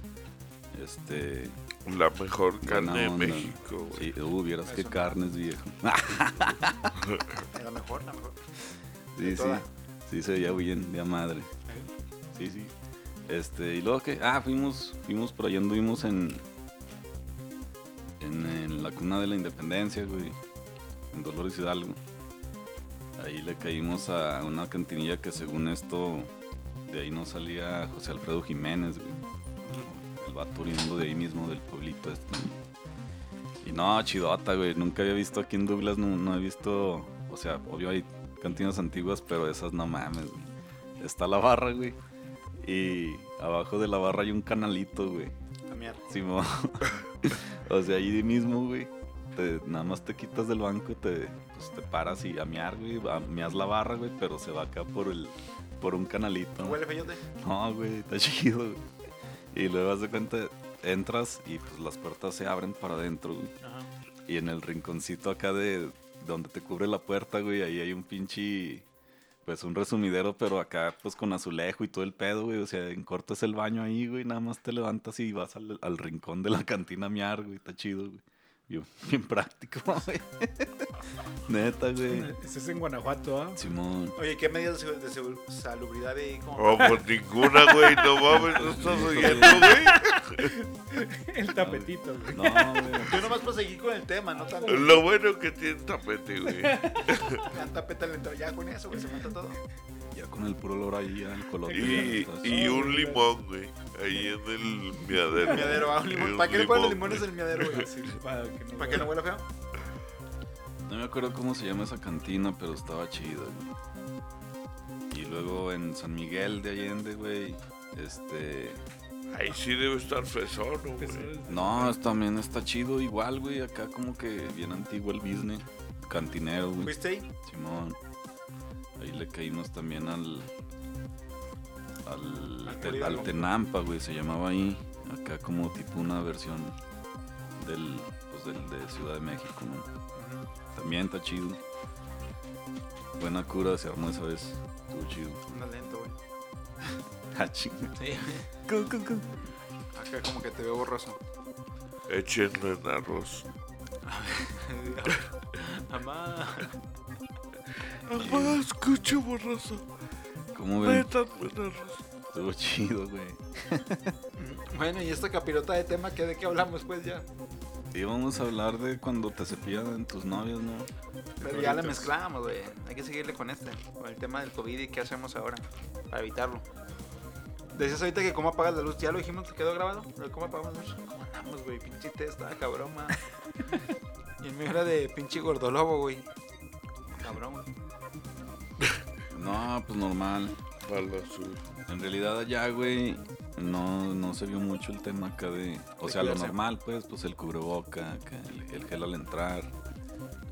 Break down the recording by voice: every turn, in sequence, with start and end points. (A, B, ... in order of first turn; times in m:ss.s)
0:00.7-0:01.6 A
0:01.8-0:04.1 B
0:02.6-0:06.9 A
0:04.6-0:05.2 C
0:07.4-0:08.4 C
0:09.2-0:11.5 A
0:09.2-0:09.7 C
0:12.3-0:12.7 A
0:13.3-0:16.4 A
0:18.2-0:20.4 A
0:21.1-0:22.0 A
0:23.2-0:26.3 A
0:26.9-0:32.6 A
0:33.6-0:42.0 A
0:42.6-0:45.3 A
0:45.7-0:46.0 C
0:46.1-0:56.8 A
0:56.6-0:57.2 C
0:57.4-0:58.8 A
0:59.5-1:03.5 A
1:03.6-1:03.9 C
1:04.3-1:08.9 A
1:09.4-1:20.9 A
1:21.5-1:22.3 A
1:22.1-1:23.6 D
1:23.6-1:24.2 A
1:24.2-1:27.0 C
1:26.6-1:30.5 B
1:28.6-1:29.8 A
1:29.2-1:33.1 D
1:31.5-1:33.4 A
1:33.0-1:35.0 C
1:34.7-1:37.4 B
1:36.5-1:37.5 D
1:37.4-1:39.6 C
1:40.1-1:42.8 A
1:41.7-1:43.3 D
1:41.7-1:47.9 B
1:45.4-1:47.9 C
1:47.6-1:49.2 D
1:48.8-1:49.5 C
1:50.9-1:53.7 A
1:55.1-1:58.8 A
1:59.3-2:01.3 B
2:01.0-2:02.0 D
2:01.5-2:08.0 A
2:06.8-2:07.3 C
2:09.0-2:10.5 A
2:12.0-2:16.8 A
2:12.6-2:13.5 C
2:17.6-2:19.9 A
2:20.2-2:20.5 C
2:20.7-2:21.6 A
2:23.2-2:25.4 A
2:25.5-2:26.2 C
2:27.3-2:28.0 A
2:28.0-2:28.5 C
2:28.7-2:29.3 A
2:30.0-2:31.2 C
2:32.1-2:33.5 B
2:34.0-2:36.7 C
2:38.1-2:39.9 B
2:38.1-2:38.6 A
2:40.5-2:41.1 A
2:40.8-2:42.1 B
2:42.3-2:44.1 A
2:44.4-2:47.3 C
2:47.9-2:50.9 A
2:51.4-2:52.1 A
2:51.4-2:56.7 C
2:57.8-3:03.3 C
3:04.4-3:06.3 C
3:07.2-3:07.7 C
3:09.3-3:10.6 A
3:10.8-3:11.6 B
3:11.9-3:19.7 A
3:16.0-3:16.6 C